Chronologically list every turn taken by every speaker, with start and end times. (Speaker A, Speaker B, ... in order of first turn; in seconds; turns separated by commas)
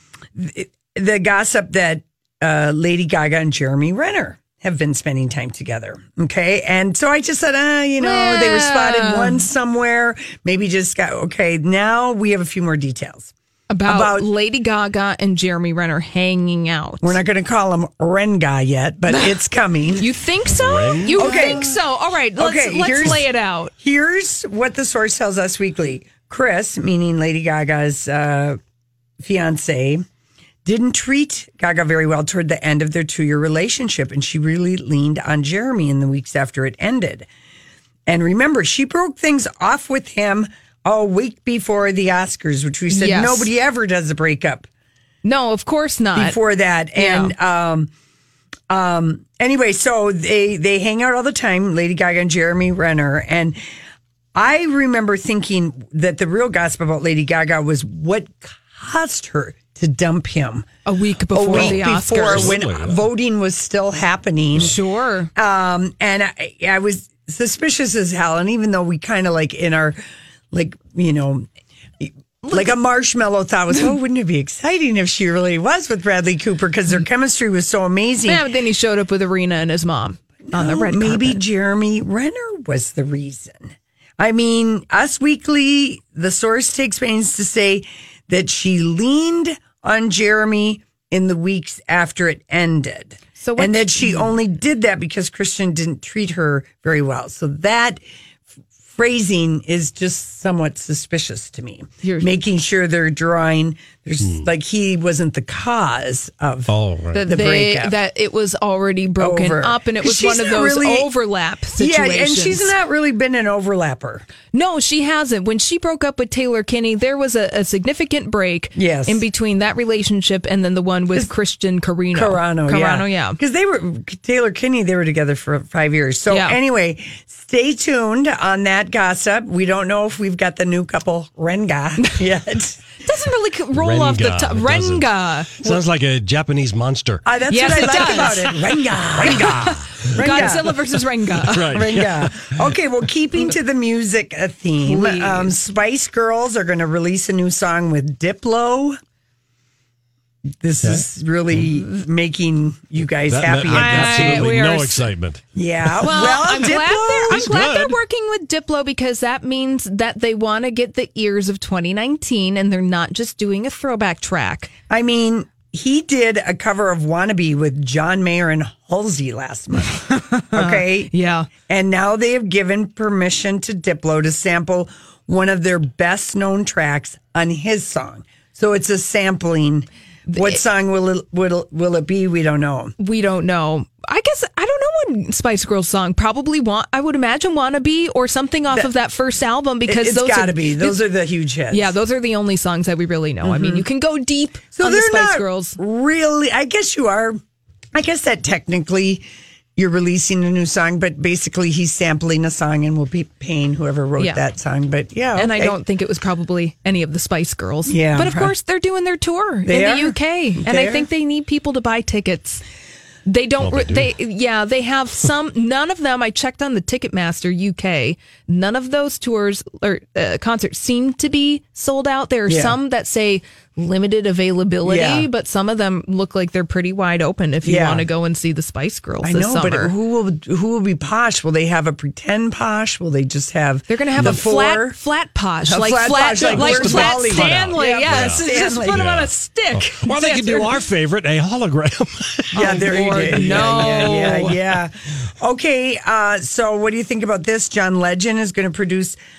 Speaker A: 0.3-13.3, Speaker B: 8.0-9.4, Speaker B: 13.7-17.2, Speaker A: 13.9-14.3, Speaker A: 17.0-20.1, Speaker B: 19.1-19.4, Speaker B: 20.0-23.7, Speaker C: 20.4-21.7, Speaker A: 21.1-21.8, Speaker A: 22.4-28.6, Speaker A: 29.2-30.1, Speaker A: 30.6-37.3, Speaker A: 38.1-44.7, Speaker B: 42.9-43.5, Speaker B: 45.2-46.4, Speaker A: 46.1-47.9, Speaker B: 47.0-47.3, Speaker A: 48.7-53.6, Speaker A: 54.4-60.7, Speaker B: 60.9-62.6, Speaker A: 61.3-64.8, Speaker C: 61.5-63.0, Speaker B: 64.5-65.3, Speaker A: 65.3-70.0, Speaker A: 70.5-71.5, Speaker A: 72.0-78.5, Speaker B: 72.4-72.8, Speaker B: 78.2-81.4, Speaker A: 80.5-98.0, Speaker B: 93.4-94.4, Speaker A: 98.9-108.0, Speaker B: 102.0-102.3, Speaker C: 106.7-107.2, Speaker B: 107.1-112.7, Speaker A: 109.2-111.1, Speaker A: 111.8-114.3, Speaker B: 114.5-123.4, Speaker A: 118.8-119.2, Speaker A: 122.1-132.9, Speaker B: 126.3-126.6, Speaker B: 133.0-135.5, Speaker C: 133.7-137.2, Speaker A: 137.2-140.8, Speaker B: 137.5-138.6, Speaker C: 137.8-138.3, Speaker C: 139.1-142.7, Speaker B: 139.2-141.9, Speaker A: 141.7-149.0, Speaker B: 144.8-145.5, Speaker A: 150.6-154.6, Speaker C: 150.8-151.7, Speaker C: 153.3-155.5, Speaker B: 153.7-155.1, Speaker A: 155.6-157.5, Speaker B: 156.0-164.7, Speaker C: 157.3-158.0, Speaker A: 164.9-182.9, Speaker B: 170.5-171.5, Speaker B: 180.3-180.6, Speaker B: 183.0-191.0, Speaker A: 189.8-192.0, Speaker B: 191.7-195.8, Speaker A: 193.4-193.9, Speaker A: 194.8-197.4, Speaker A: 197.9-205.8, Speaker B: 205.4-212.6, Speaker A: 207.9-208.5, Speaker A: 209.7-211.1, Speaker B: 213.3-229.9, Speaker C: 213.6-214.1, Speaker A: 222.5-222.8, Speaker A: 224.8-225.3, Speaker A: 227.6-228.1, Speaker A: 229.2-235.0, Speaker B: 233.9-240.7, Speaker C: 234.2-234.5, Speaker A: 235.6-239.1, Speaker C: 236.3-244.8, Speaker B: 242.5-244.5, Speaker A: 242.5-249.2